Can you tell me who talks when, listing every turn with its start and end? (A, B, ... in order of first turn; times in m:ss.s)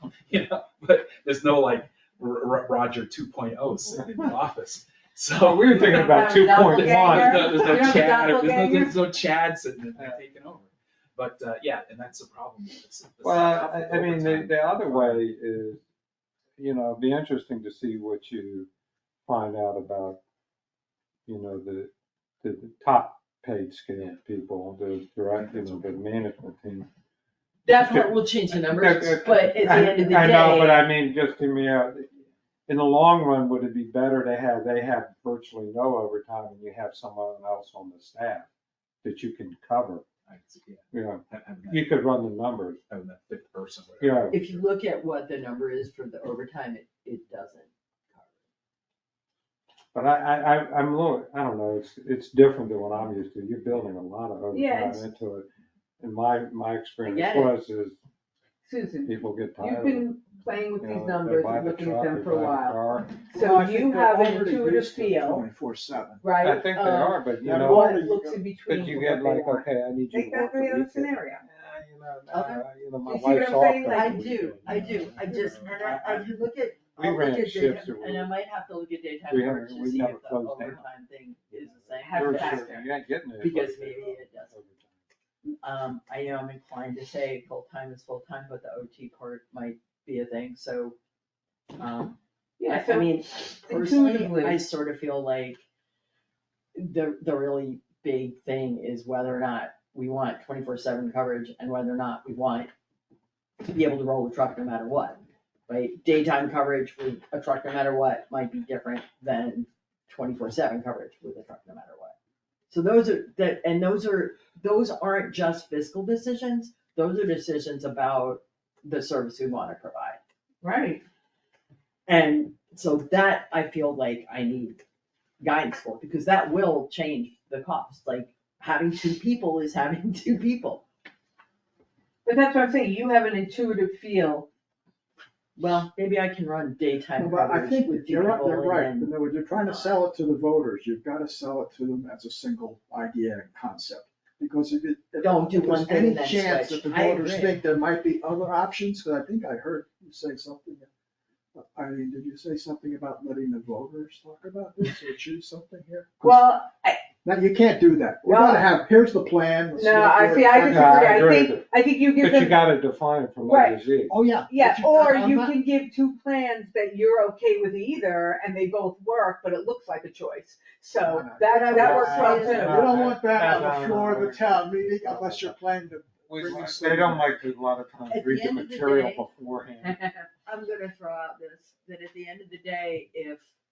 0:00.2-0:15.2 A
0:05.4-0:07.7 B
0:05.8-0:09.0 C
0:13.2-0:15.8 B
0:16.6-0:18.7 B
0:19.2-0:20.2 B
0:21.3-0:21.9 B
0:22.4-0:26.9 B
0:27.6-0:30.9 D
0:27.7-0:32.1 B
0:32.7-0:38.5 B
0:39.0-0:40.0 B
0:40.3-0:41.9 A
0:40.9-0:42.8 B
0:42.9-0:44.6 A
0:44.0-0:44.4 B
0:44.3-0:48.3 D
0:49.9-0:55.5 B
0:54.5-0:55.1 C
0:56.0-0:58.0 B
0:57.0-0:57.5 D
0:58.6-1:05.5 C
0:59.0-1:00.0 B
1:00.8-1:03.1 B
1:03.3-1:06.3 E
1:06.2-1:11.4 C
1:06.4-1:07.9 B
1:06.7-1:07.1 D
1:07.4-1:09.1 E
1:08.7-1:16.2 B
1:12.3-1:12.6 D
1:13.0-1:14.7 C
1:13.9-1:22.8 D
1:17.0-1:18.3 B
1:19.3-1:20.8 B
1:21.9-1:24.9 B
1:22.0-1:22.9 C
1:23.4-1:24.5 D
1:25.4-1:31.0 D
1:31.8-1:35.6 D
1:32.6-1:34.7 C
1:36.7-1:42.7 D
1:43.7-1:52.1 D
1:52.7-2:00.2 D
2:00.6-2:01.0 C
2:02.1-2:04.8 D
2:05.4-2:10.8 D
2:12.2-2:14.5 C
2:15.6-2:19.9 D
2:17.2-2:30.9 E
2:25.2-2:27.6 D
2:31.5-2:36.6 E
2:36.2-2:37.1 C
2:37.2-2:41.5 E
2:38.2-2:38.7 C
2:39.7-2:42.7 C
2:40.7-2:44.1 B
2:43.4-2:43.9 C
2:44.1-2:45.5 E
2:44.5-2:52.9 C
2:51.0-2:57.4 E
2:51.5-2:53.1 D
2:52.4-2:55.6 B
2:56.3-3:00.0 B
2:58.1-2:59.2 D
3:00.4-3:03.4 D